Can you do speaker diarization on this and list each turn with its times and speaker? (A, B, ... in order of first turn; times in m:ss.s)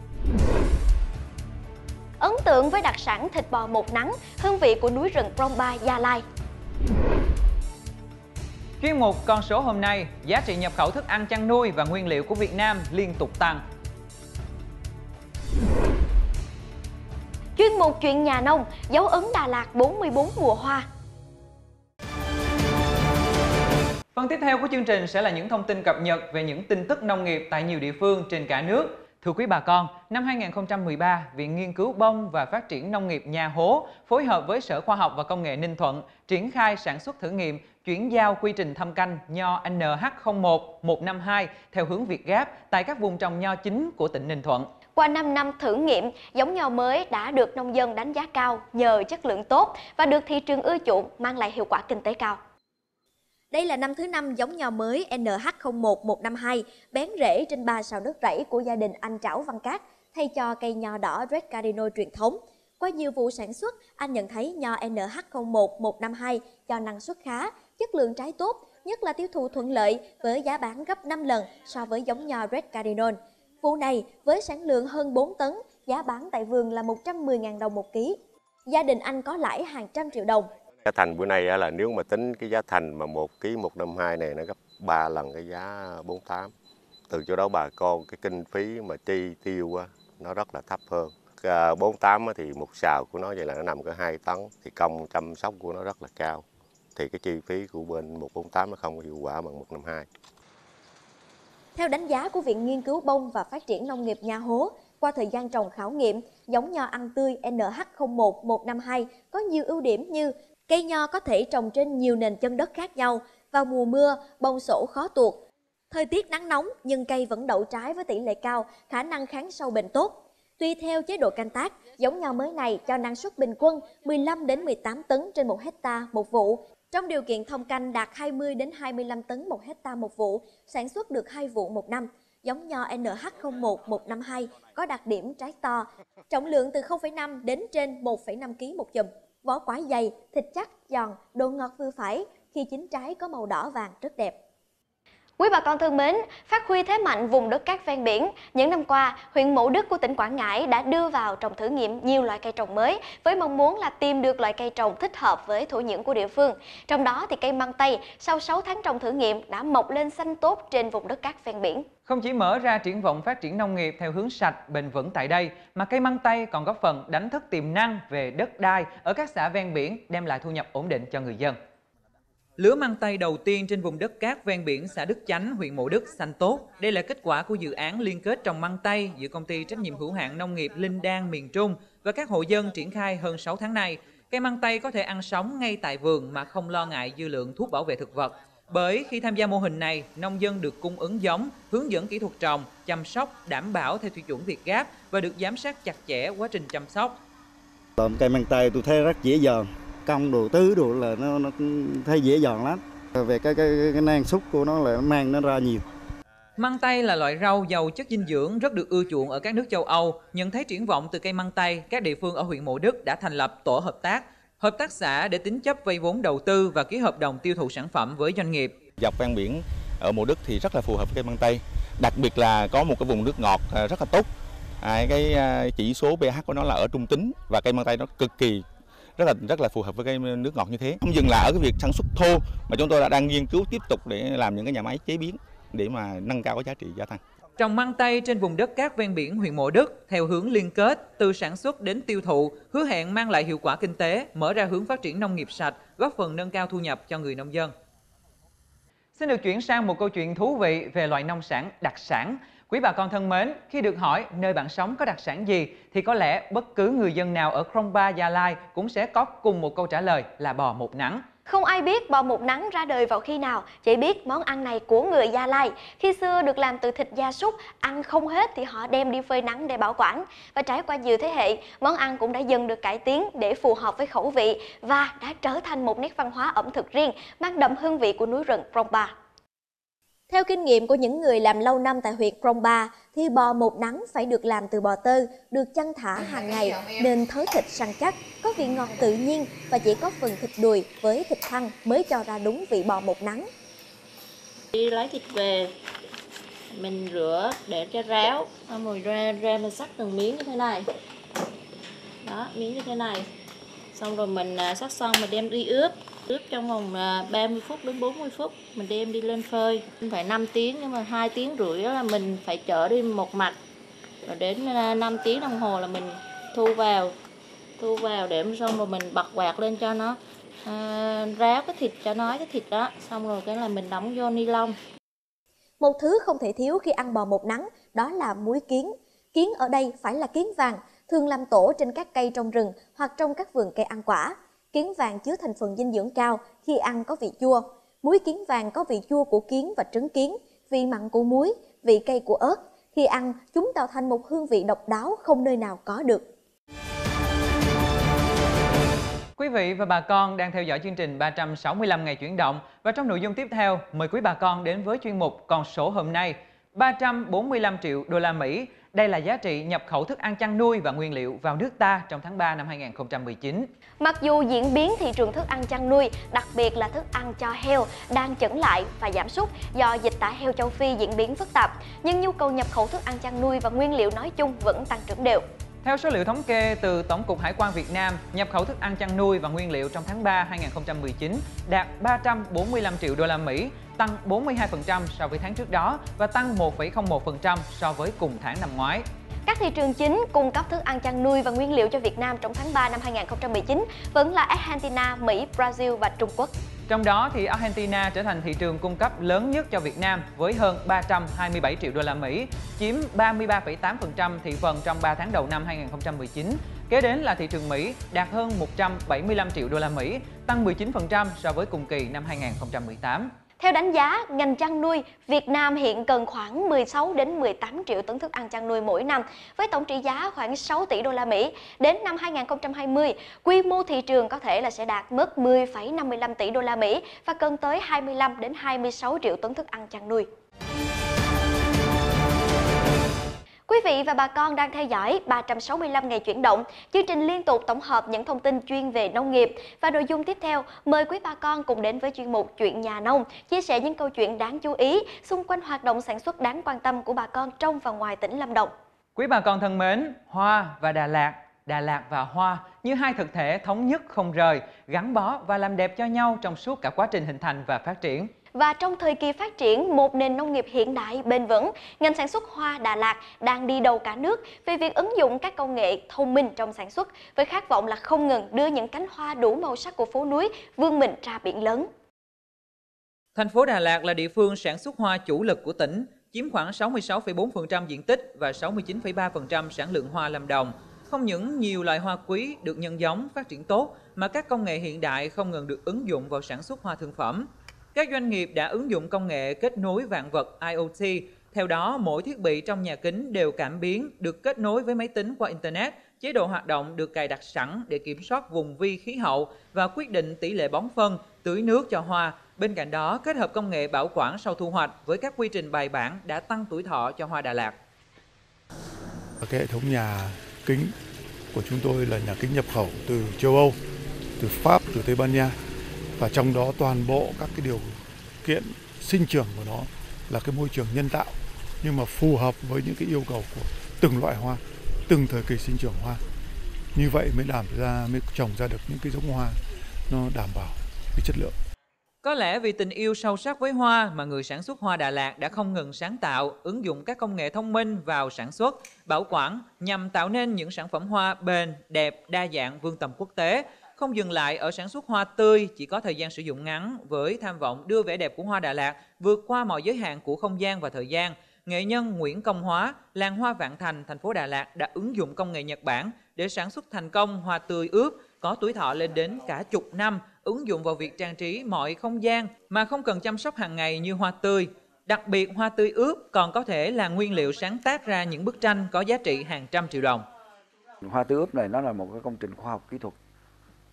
0:02.2-0:06.2 A
0:08.8-0:13.6 B
0:17.6-0:20.8 A
0:24.1-0:44.7 B
0:44.9-0:52.4 A
0:53.5-1:18.2 A
1:18.7-1:20.5 A
1:20.8-1:26.5 C
1:27.1-1:36.4 C
1:37.0-1:40.0 C
1:41.7-1:55.4 A
1:55.9-2:24.4 A
2:25.4-2:41.8 A
2:42.1-2:51.6 B
2:52.6-3:17.2 B
3:18.0-3:25.8 D
3:26.6-3:38.8 B
3:39.0-3:44.3 E
3:44.8-3:48.6 E
3:49.2-3:57.2 E
3:57.6-4:07.7 B
4:09.2-4:21.2 B
4:21.5-4:39.1 A
4:40.3-4:53.5 A
4:54.7-4:55.7 F
4:56.7-5:00.9 F
5:02.2-5:03.3 F
5:03.9-5:13.6 F
5:14.2-5:17.1 F
5:17.8-5:24.8 F
5:25.8-5:46.2 A
5:49.4-6:03.7 B
6:04.0-6:15.4 A
6:15.8-6:29.0 B
6:29.4-6:36.5 A
6:36.9-6:53.3 B
6:53.6-7:10.3 A
7:13.7-7:28.7 A
7:29.2-7:38.3 B
7:38.5-7:51.9 A
7:53.3-8:27.8 B
8:29.4-8:30.9 G
8:31.5-8:33.8 G
8:34.4-8:35.6 G
8:36.2-8:46.2 G
8:46.9-8:49.6 G
8:50.1-8:51.5 G
8:52.2-9:30.2 B
9:31.0-9:33.2 H